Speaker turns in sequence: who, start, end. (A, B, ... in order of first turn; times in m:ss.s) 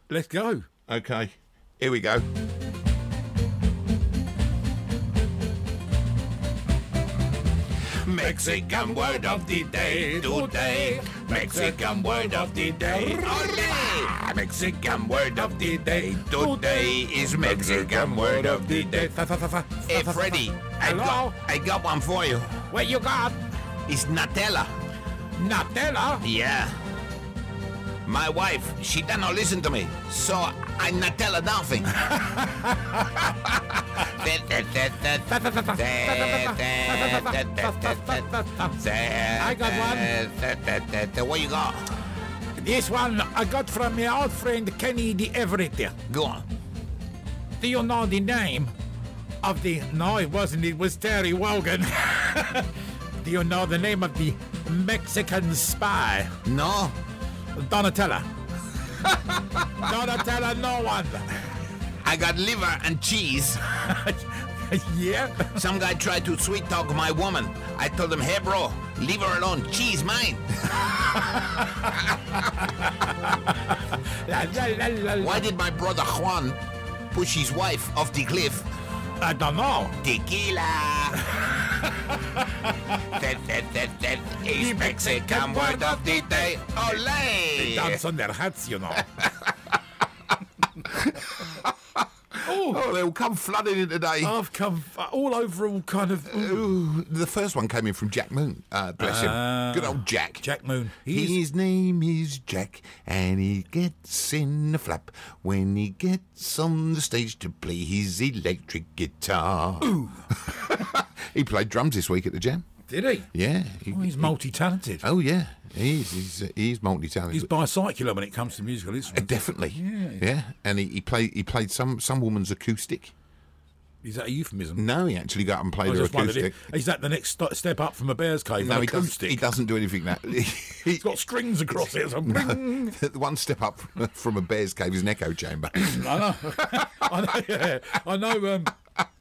0:00.1-0:00.7 A
0:00.9-0:02.3 B
0:08.0-0:19.1 B
0:08.2-0:14.1 A
0:15.1-0:21.4 A
0:19.9-0:22.7 B
0:22.7-0:23.4 A
0:23.9-0:24.8 B
0:25.4-0:26.3 A
0:26.2-0:26.8 B
0:28.1-0:32.3 B
0:32.1-0:33.2 A
0:32.9-0:42.0 B
0:35.3-0:38.8 A
0:39.4-0:40.1 A
0:42.6-0:46.0 A
0:46.1-0:46.5 B
0:47.6-0:48.7 A
0:49.4-0:56.4 A
0:56.4-0:57.0 B
0:57.5-0:58.3 A
0:59.0-0:59.8 B
0:59.7-1:01.6 A
1:02.0-1:03.6 B
1:03.6-1:05.6 A
1:05.5-1:12.5 B
1:11.2-1:15.5 A
1:15.2-1:16.6 B
1:17.1-1:18.7 B
1:19.2-1:20.0 A
1:20.0-1:21.4 B
1:21.2-1:23.2 A
1:22.9-1:28.0 B
1:24.5-1:27.0 A
1:27.5-1:29.3 A
1:30.8-1:34.4 B
1:32.4-1:32.8 A
1:34.2-1:36.8 A
1:36.3-1:40.4 B
1:39.0-1:41.4 A
1:41.1-1:52.7 B
1:49.8-1:50.3 A
1:52.9-1:53.3 A
1:53.3-1:54.4 B
1:53.9-1:55.0 A
1:55.0-1:57.5 B
1:57.3-2:00.2 A
1:59.1-2:03.1 B
2:04.0-2:04.8 A
2:04.8-2:06.7 B
2:05.8-2:09.4 A
2:08.6-2:11.1 B
2:10.9-2:13.0 A
2:12.2-2:16.0 B
2:15.7-2:18.7 A